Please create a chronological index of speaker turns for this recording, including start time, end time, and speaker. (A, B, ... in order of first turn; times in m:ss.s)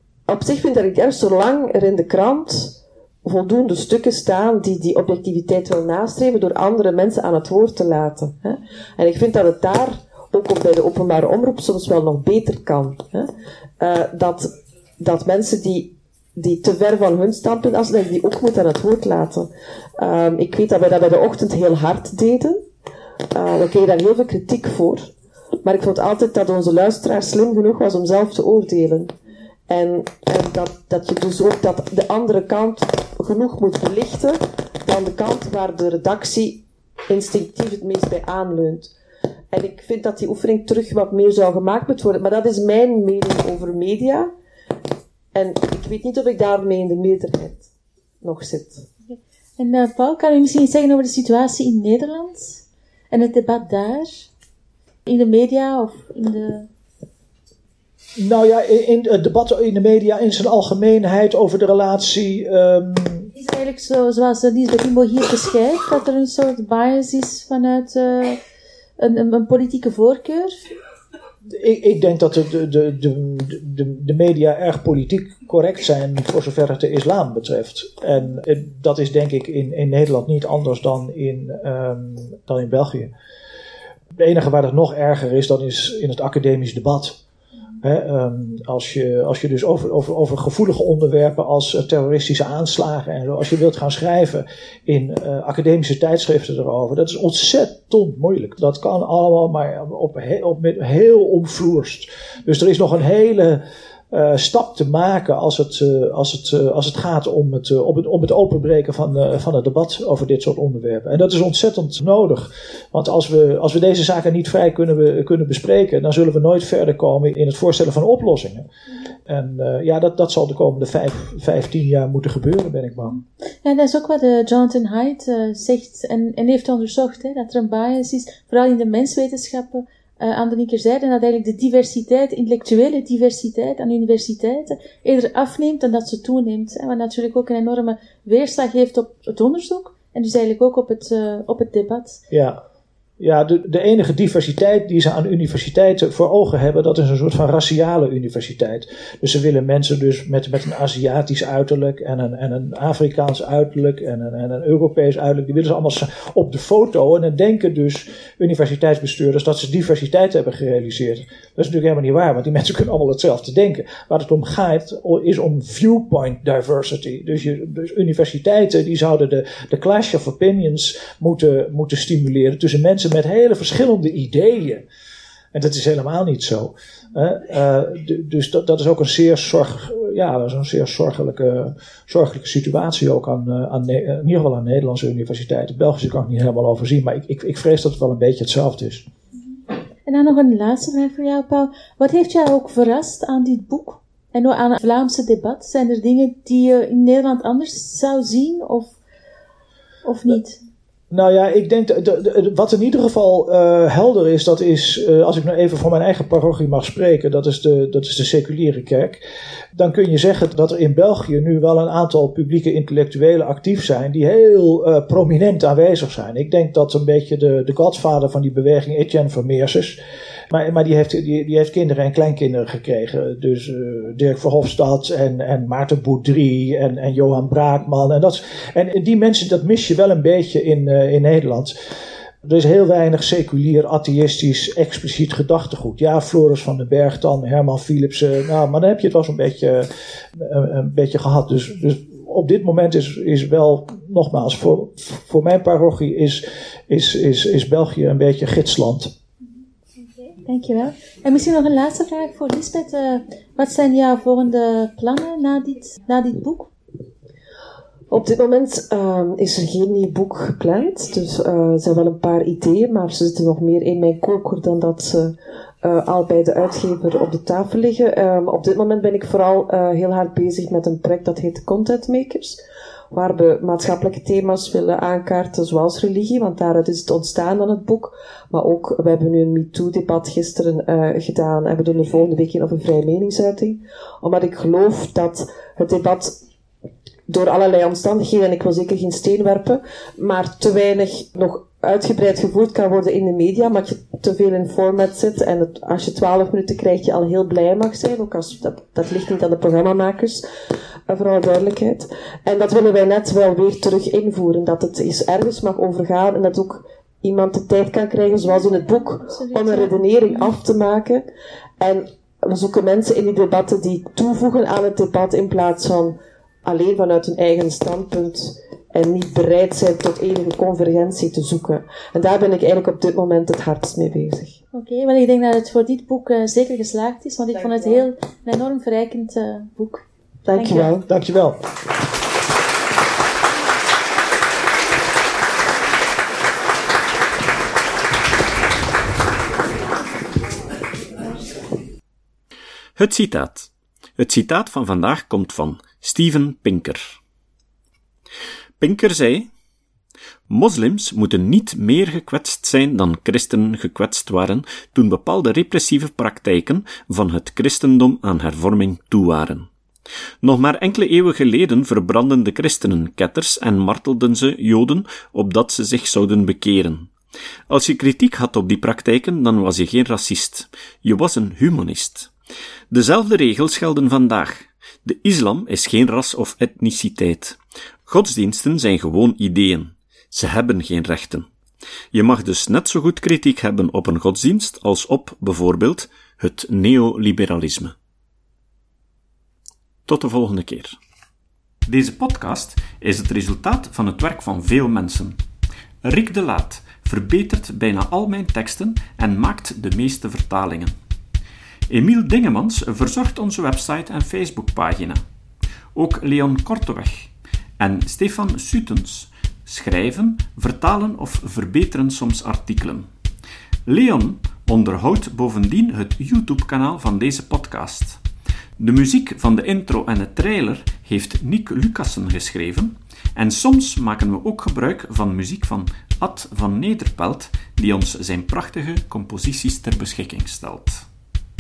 0:00.3-0:22.6 A
0:23.3-0:25.1 A
0:25.6-0:29.1 A
0:29.7-0:38.9 A
0:39.5-0:44.3 A
0:45.3-0:47.7 A
0:48.2-0:48.8 A
0:49.1-0:54.3 B
0:55.0-0:56.7 B
0:58.2-1:03.3 C
1:03.3-1:08.4 B
1:09.0-1:10.6 B
1:11.5-1:23.1 C
1:24.2-1:27.2 C
1:27.8-1:58.6 C
1:59.3-2:03.2 C
2:03.6-2:22.2 B
2:22.3-2:22.6 C
2:23.2-2:54.8 C
2:55.5-3:09.0 C
3:10.0-3:19.0 B
3:20.0-3:20.6 B
3:21.1-3:29.2 C
3:29.7-3:40.0 C
3:40.5-3:51.7 C
3:52.4-4:09.1 C
4:10.4-4:16.7 B
4:18.1-4:32.6 A
4:33.1-4:46.4 A
4:47.3-5:00.4 A
5:01.1-5:11.2 A
5:08.4-5:10.0 B
5:11.8-5:24.6 A
5:24.7-5:30.9 B
5:30.4-5:31.1 A
5:31.1-5:31.6 C
5:43.0-5:47.2 D
5:48.8-5:49.5 D
5:50.5-5:59.7 D
6:00.4-6:07.1 D
6:07.7-6:12.3 D
6:12.9-6:21.5 D
6:22.1-6:27.9 D
6:30.0-6:31.0 D
6:31.8-6:35.4 D
6:36.0-6:40.9 D
6:41.9-6:45.2 D
6:45.9-6:53.1 D
6:53.8-6:58.2 D
6:58.8-7:11.0 D